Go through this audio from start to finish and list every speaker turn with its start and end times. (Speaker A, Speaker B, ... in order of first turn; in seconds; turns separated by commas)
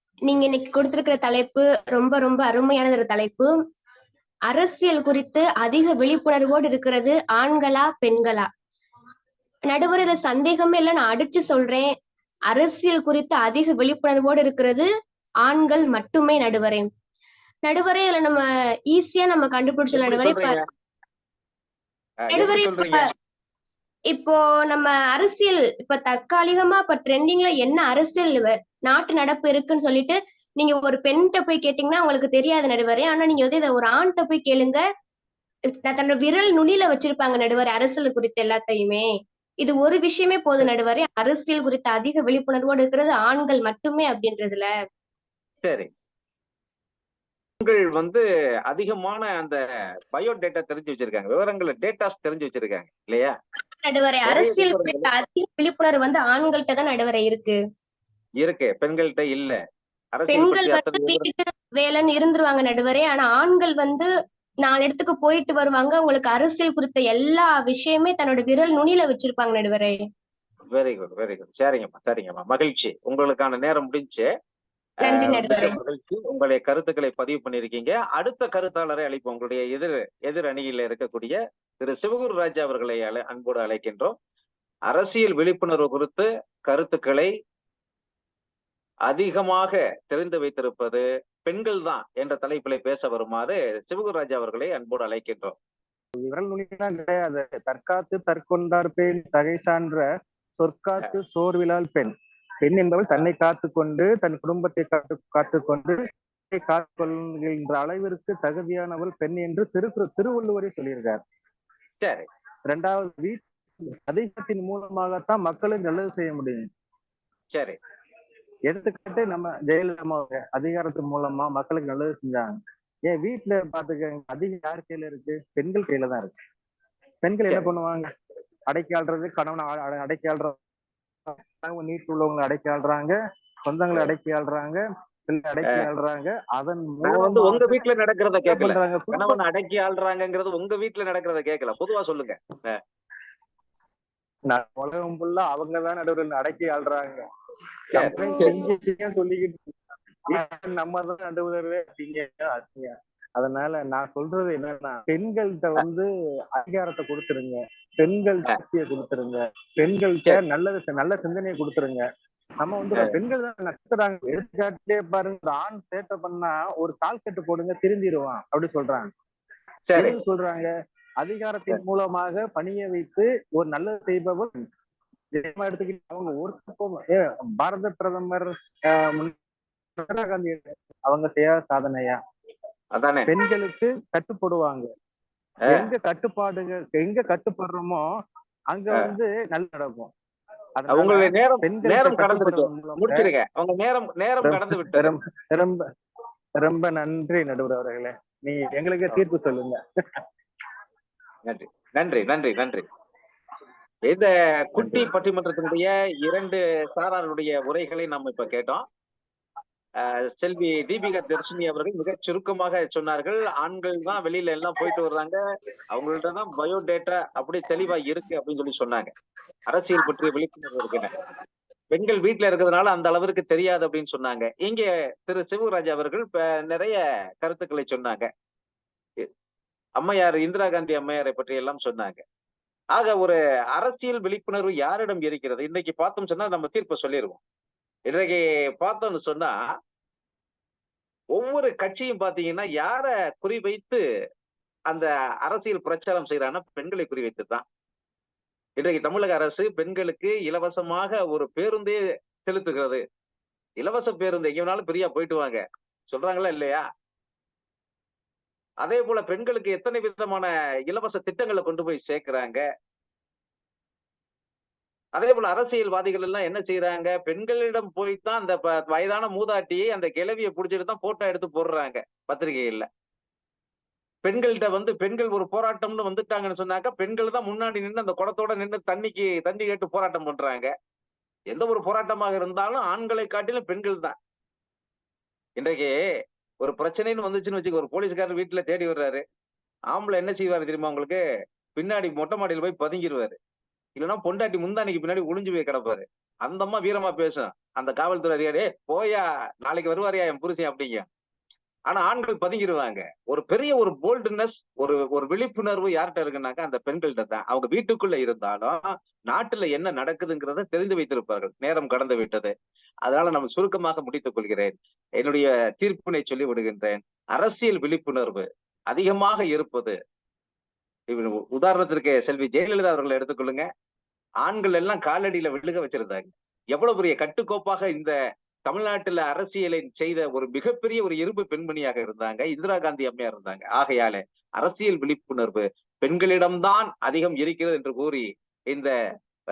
Speaker A: 0.3-3.5, Speaker A: 4.5-8.5, Speaker A: 9.7-11.9, Speaker A: 12.5-14.8, Speaker A: 15.4-16.9, Speaker A: 17.6-20.6, Speaker B: 19.9-20.6, Speaker B: 22.2-23.1, Speaker A: 22.3-23.0, Speaker A: 24.1-34.8, Speaker A: 35.8-39.1, Speaker A: 39.6-44.7, Speaker B: 45.6-45.9, Speaker B: 47.6-49.6, Speaker B: 50.1-53.3, Speaker A: 53.8-57.6, Speaker B: 54.2-55.1, Speaker B: 58.4-59.6, Speaker B: 60.1-61.3, Speaker A: 60.3-64.1, Speaker A: 64.6-70.0, Speaker B: 70.7-74.3, Speaker B: 75.0-84.1, Speaker A: 75.0-75.8, Speaker B: 84.9-87.3, Speaker B: 89.1-95.5, Speaker C: 96.2-100.0, Speaker C: 100.6-106.0, Speaker C: 106.5-111.2, Speaker B: 112.0-112.3, Speaker C: 112.7-113.4, Speaker C: 114.1-116.6, Speaker B: 117.5-117.8, Speaker C: 118.7-126.3, Speaker C: 127.2-128.1, Speaker C: 128.7-130.6, Speaker C: 131.3-137.8, Speaker B: 137.1-142.8, Speaker C: 138.5-139.4, Speaker C: 144.5-147.2, Speaker C: 147.9-149.7, Speaker B: 147.9-148.6, Speaker C: 150.3-162.0, Speaker C: 162.6-169.1, Speaker B: 169.9-170.2, Speaker C: 169.9-174.6, Speaker C: 175.3-179.3, Speaker C: 180.0-182.2, Speaker B: 182.9-183.3, Speaker C: 183.3-184.9, Speaker B: 185.6-185.9, Speaker C: 185.7-188.0, Speaker C: 188.7-190.1, Speaker C: 190.8-193.3, Speaker B: 190.9-195.1, Speaker C: 194.4-195.8, Speaker C: 196.6-199.8, Speaker B: 201.4-202.8, Speaker B: 204.1-208.8, Speaker C: 204.8-205.1, Speaker B: 210.0-215.4, Speaker B: 215.9-219.1, Speaker B: 219.7-221.1, Speaker B: 221.9-228.3, Speaker B: 230.0-232.2, Speaker B: 232.9-237.4, Speaker B: 238.1-239.6, Speaker B: 241.3-244.0, Speaker B: 244.9-247.6, Speaker B: 248.8-253.0, Speaker B: 253.8-256.8, Speaker B: 258.8-262.6, Speaker B: 265.1-272.9, Speaker B: 274.2-280.7, Speaker B: 281.5-284.1, Speaker B: 285.6-285.9, Speaker B: 286.6-289.2, Speaker B: 289.9-291.2, Speaker B: 291.7-293.4, Speaker B: 293.9-301.1, Speaker B: 301.9-312.5, Speaker B: 313.0-319.9, Speaker B: 321.1-323.6, Speaker B: 324.4-328.1, Speaker B: 328.6-338.9